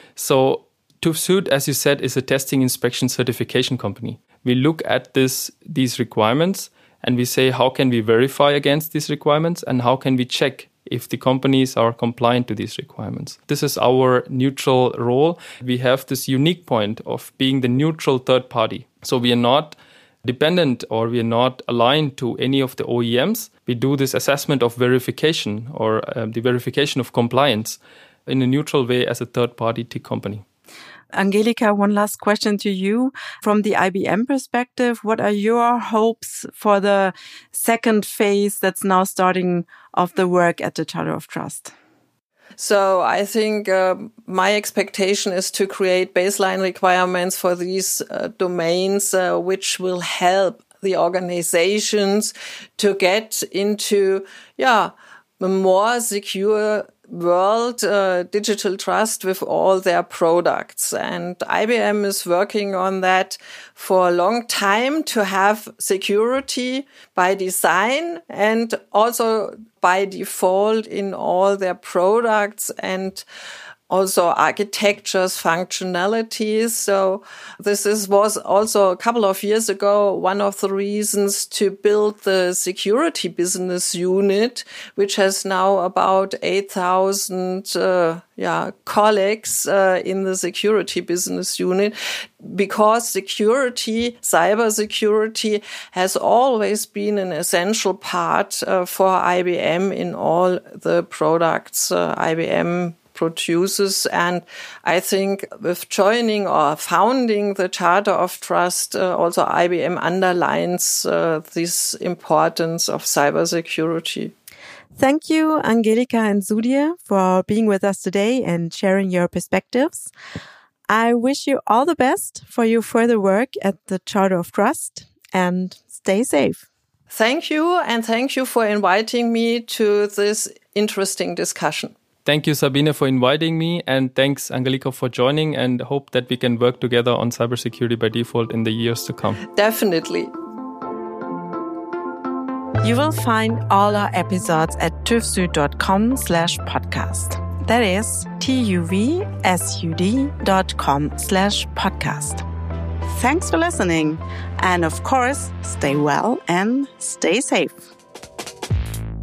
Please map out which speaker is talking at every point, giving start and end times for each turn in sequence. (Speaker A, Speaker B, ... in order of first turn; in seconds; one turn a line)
Speaker A: 0.1-30.4
Speaker B: 31.1-41.7
Speaker C: 42.6-73.2
Speaker C: 73.9-114.3
Speaker B: 115.0-120.1
Speaker B: 120.9-126.7
Speaker C: 127.1-131.9
Speaker A: 132.2-139.4
Speaker C: 139.5-140.3
Speaker B: 142.8-152.4
Speaker B: 153.1-157.9